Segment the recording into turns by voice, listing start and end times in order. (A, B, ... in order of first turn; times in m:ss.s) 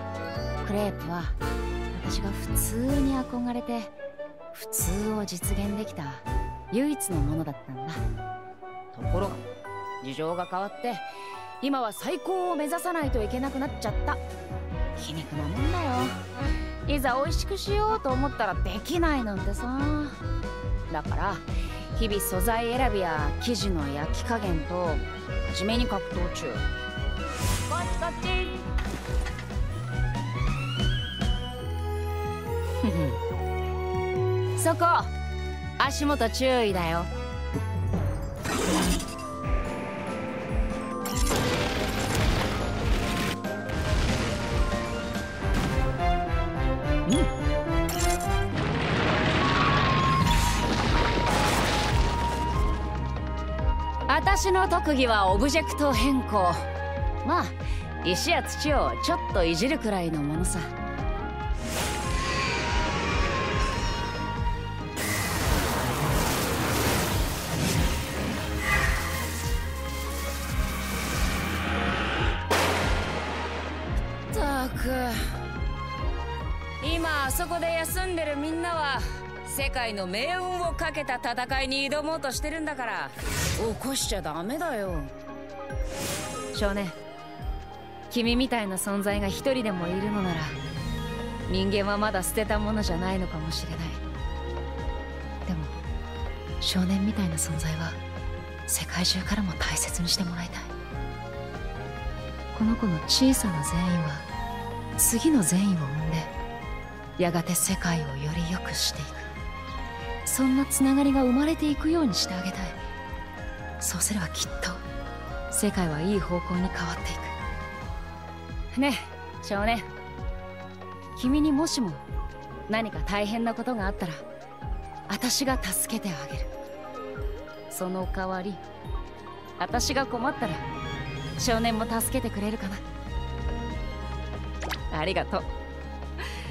0:00.6-0:01.4 A
0:01.9-0:03.9 A
0:04.5-0:08.0 A
0:08.9-0:09.4 A
0:10.0-0:11.1 A
0:11.6-0:14.2 A
0:15.0-0:16.2 A
0:16.9-0:20.2 A
0:20.9-0:26.6 A
0:27.7-0:28.7 A
0:32.8-0:33.2 A
0:34.6-0:35.1 A
0:35.8-0:37.1 A
0:54.1-0:56.6 A
0:57.2-1:00.7 A
1:14.3-1:15.2 A
1:16.8-1:25.1 A
1:26.5-1:27.0 A
1:28.1-1:30.6 A
1:31.5-1:34.0 A
1:35.4-1:35.8 A
1:36.6-1:38.0 A
1:38.7-1:40.7 A
1:42.5-1:44.3 A
1:45.0-1:46.3 A
1:47.2-1:49.3 A
1:50.2-1:52.8 A
1:53.8-1:54.8 A
1:55.5-1:57.3 A
1:58.7-1:59.9 A
2:01.2-2:02.0 A
2:02.7-2:04.2 A
2:05.1-2:06.5 A
2:07.7-2:08.6 A
2:09.6-2:10.6 A
2:11.4-2:12.8 A
2:14.9-2:15.5 A